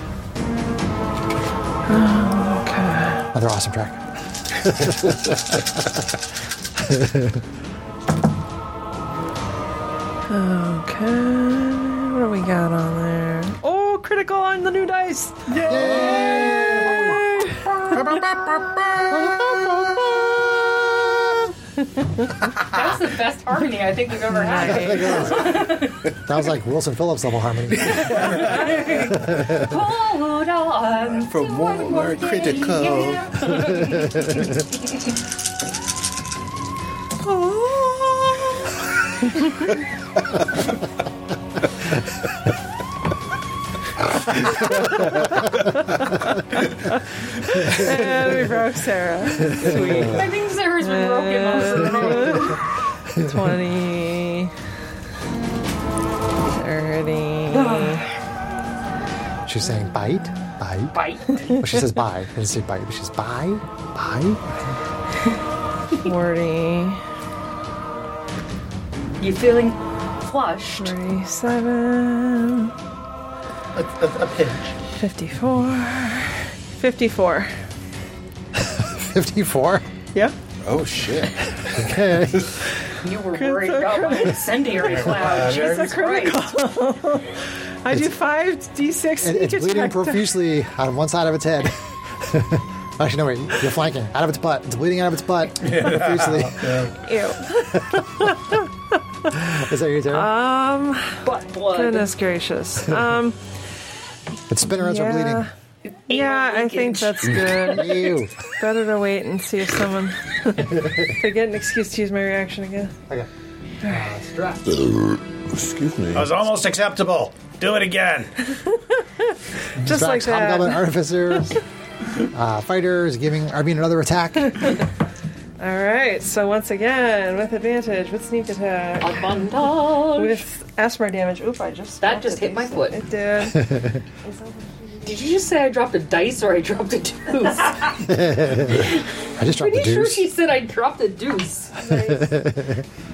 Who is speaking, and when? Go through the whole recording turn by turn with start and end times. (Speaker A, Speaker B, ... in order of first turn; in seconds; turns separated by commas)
Speaker A: 1.9-3.3, Speaker B: 3.3-5.8, Speaker B: 6.8-7.4, Speaker A: 10.3-17.9, Speaker C: 15.5-16.6, Speaker B: 15.6-17.2, Speaker D: 15.9-16.2, Speaker D: 17.9-20.4, Speaker A: 22.0-22.3, Speaker E: 22.6-26.1, Speaker A: 24.3-25.5, Speaker B: 24.6-29.8, Speaker E: 27.8-34.9, Speaker D: 27.9-28.7, Speaker D: 31.2-33.5, Speaker B: 33.8-34.4, Speaker A: 46.6-50.2, Speaker B: 47.7-48.0, Speaker B: 49.5-50.1, Speaker E: 49.7-52.6, Speaker A: 50.8-52.6, Speaker A: 53.1-54.5, Speaker B: 53.1-53.4, Speaker A: 56.5-58.1, Speaker E: 57.5-58.0, Speaker B: 59.5-60.9, Speaker E: 60.9-61.6, Speaker B: 61.5-64.4, Speaker A: 66.0-67.0, Speaker E: 69.2-70.9, Speaker A: 70.8-72.7, Speaker C: 73.7-74.7, Speaker A: 75.0-77.5, Speaker B: 78.6-79.8, Speaker D: 80.6-81.6, Speaker B: 81.7-82.5, Speaker E: 83.0-86.5, Speaker A: 83.3-90.3, Speaker C: 84.8-85.9, Speaker B: 89.2-96.9, Speaker C: 95.6-96.9, Speaker A: 97.0-98.6, Speaker B: 99.3-100.3, Speaker A: 100.1-103.4, Speaker E: 101.2-102.1, Speaker B: 104.5-105.4, Speaker A: 104.7-105.5, Speaker E: 105.9-107.8, Speaker A: 106.1-112.9, Speaker B: 107.7-108.3, Speaker B: 113.8-114.6, Speaker D: 114.7-116.4, Speaker C: 116.1-118.3, Speaker A: 118.6-121.5, Speaker B: 119.8-121.6, Speaker B: 122.3-124.7, Speaker A: 125.6-134.0, Speaker E: 129.0-130.4, Speaker E: 132.0-133.0, Speaker B: 133.5-134.0, Speaker E: 135.0-138.1, Speaker B: 138.0-140.3, Speaker E: 138.7-141.8, Speaker A: 141.8-142.2, Speaker B: 141.8-142.8